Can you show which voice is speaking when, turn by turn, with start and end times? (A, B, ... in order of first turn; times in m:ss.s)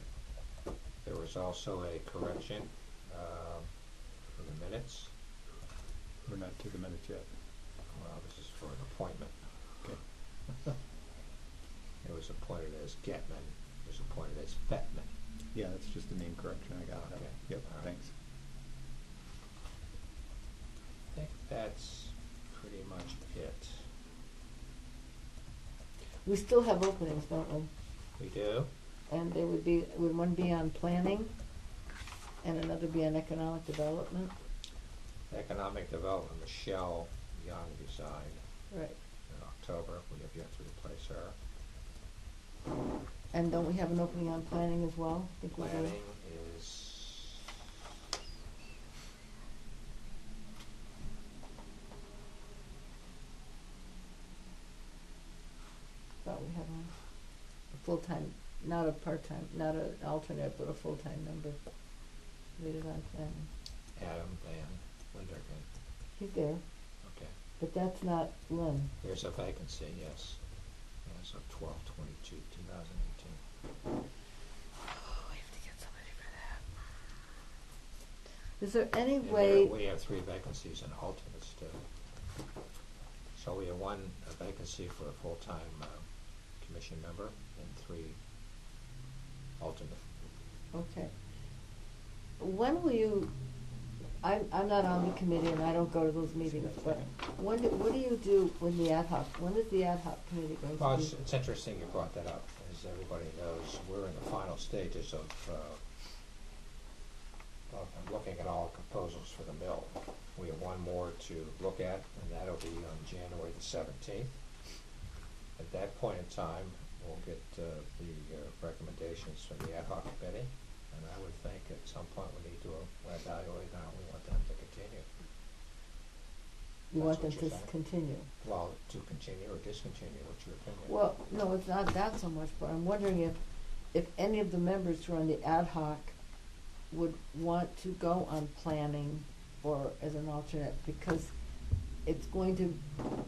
0:01.0-0:03.7 A
0:04.4-0:05.1 A
0:06.2-0:07.3 B
0:07.9-0:09.3 A
0:12.0-0:15.1 A
0:15.5-0:18.1 B
0:17.0-0:17.9 A
0:21.1-0:23.9 A
0:26.2-0:27.7 C
0:28.2-0:28.7 A
0:29.1-0:31.3 C
0:32.4-0:34.3 C
0:35.3-0:38.4 A
0:38.7-0:39.0 C
0:39.3-0:41.4 A
0:43.3-0:46.0 C
0:45.5-0:47.5 A
0:56.2-0:56.9 C
0:57.7-1:01.6 C
1:02.6-1:03.5 C
1:03.9-1:05.7 A
1:06.2-1:06.6 C
1:07.0-1:07.3 A
1:07.6-1:08.9 C
1:09.0-1:10.4 A
1:11.0-1:13.4 A
1:14.8-1:16.6 C
1:18.6-1:19.8 C
1:19.2-1:21.8 A
1:23.3-1:26.0 A
1:26.6-1:28.2 A
1:29.6-1:30.0 A
1:30.7-1:31.1 C
1:32.4-1:33.3 C
1:34.2-1:41.1 C
1:36.4-1:37.1 B
1:40.8-1:45.8 A
1:47.7-1:54.3 A
1:55.6-2:05.1 A
2:06.9-2:08.3 C
2:07.0-2:07.7 A
2:08.4-2:10.9 A
2:10.8-2:13.4 C
2:13.9-2:16.1 C
2:16.9-2:21.3 C
2:22.0-2:22.8 C